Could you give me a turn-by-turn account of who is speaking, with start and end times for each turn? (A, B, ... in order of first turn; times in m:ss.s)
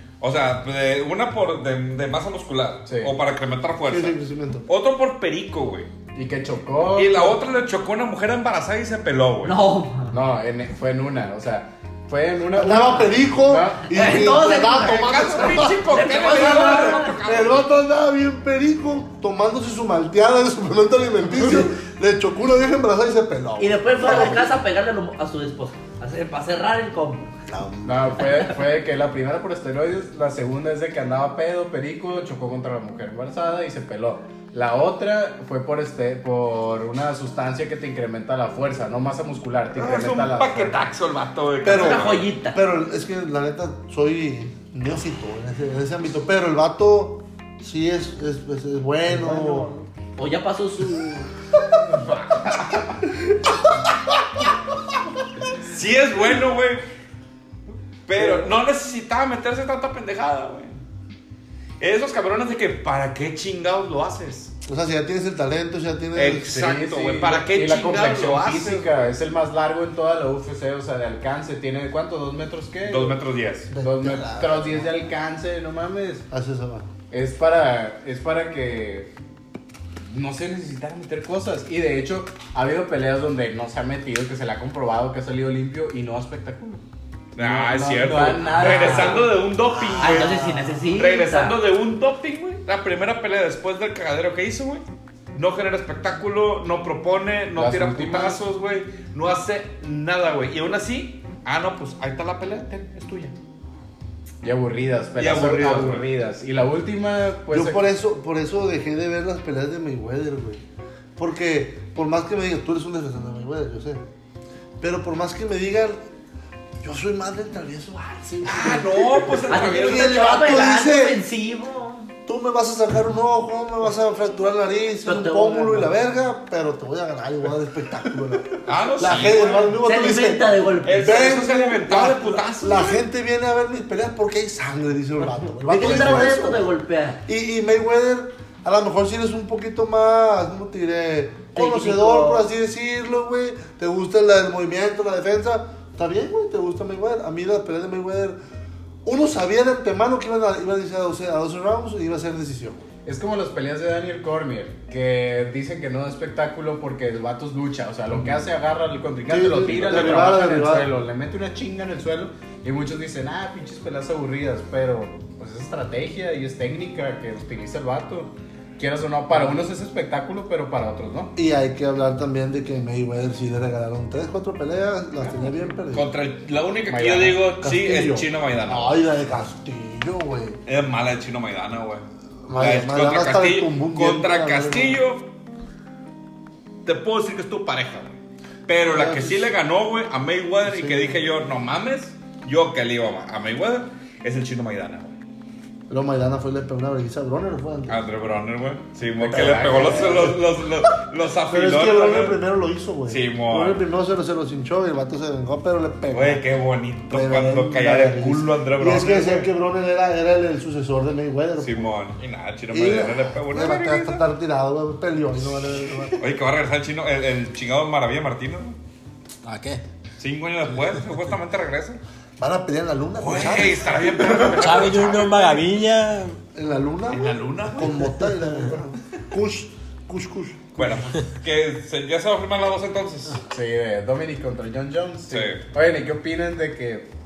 0:00.2-0:04.2 A
0:02.9-0:03.2 B
0:03.9-0:04.7 C
0:04.7-0:05.9 A
0:06.1-0:07.4 B
0:06.9-0:09.6 A
0:09.4-0:10.2 D
0:10.1-0:14.2 B
0:12.6-0:24.5 C
0:13.9-0:17.2 D
0:14.8-0:17.7 A
0:23.6-0:27.3 D
0:27.5-0:28.2 C
0:27.8-0:40.8 B
0:39.7-0:42.3 A
0:41.6-0:49.7 C
0:41.7-0:42.6 D
0:49.3-0:49.6 B
0:50.2-0:51.3 D
0:52.0-0:52.4 B
0:55.7-0:56.8 A
0:58.1-1:00.8 A
0:58.2-0:58.5 B
1:01.8-1:04.5 A
1:04.7-1:06.6 C
1:06.2-1:09.0 A
1:06.5-1:13.2 B
1:12.8-1:13.7 A
1:13.7-1:14.9 C
1:13.8-1:16.2 B
1:16.3-1:16.9 C
1:17.1-1:19.1 B
1:20.1-1:26.8 B
1:27.4-1:43.4 A
1:27.4-1:29.4 B
1:29.8-1:30.5 C
1:29.9-1:31.6 D
1:37.5-1:38.4 B
1:44.4-1:47.8 B
1:45.2-1:46.1 A
1:47.5-1:50.6 C
1:51.2-1:54.0 C
1:54.8-1:56.0 C
1:56.8-2:01.2 C
1:58.4-2:00.2 A
1:59.5-2:02.1 D
2:02.3-2:10.5 C
2:05.0-2:05.9 D
2:08.6-2:09.8 A
2:09.8-2:11.4 D
2:10.8-2:13.0 A
2:11.0-2:16.7 C
2:15.7-2:17.2 D
2:17.3-2:28.4 C
2:21.6-2:22.5 D
2:29.0-2:32.9 C
2:33.0-2:51.4 B
2:39.3-2:40.9 C
2:39.7-2:40.4 A
2:51.4-2:56.1 C
2:55.9-2:59.0 A
2:56.9-2:57.5 B
2:57.6-3:00.6 C
3:00.7-3:02.0 A
3:02.5-3:05.0 C
3:02.6-3:05.3 A
3:06.8-3:15.2 A
3:08.8-3:09.5 C
3:10.6-3:11.2 C
3:15.9-3:18.0 C
3:17.9-3:22.4 A
3:19.2-3:20.4 B
3:19.6-3:20.4 C
3:21.5-3:26.4 C
3:23.1-3:23.8 A
3:26.1-3:29.5 A
3:27.1-3:32.0 C
3:31.6-3:34.2 A
3:32.7-3:36.2 C
3:36.2-3:38.8 A
3:39.4-3:39.8 E
3:40.2-3:42.0 A
3:42.4-3:44.0 C
3:43.2-3:45.7 A
3:44.5-3:46.4 E
3:46.5-3:51.0 C
3:47.1-3:48.4 A
3:50.8-3:53.4 A
3:53.5-3:57.1 B
3:55.3-3:55.6 A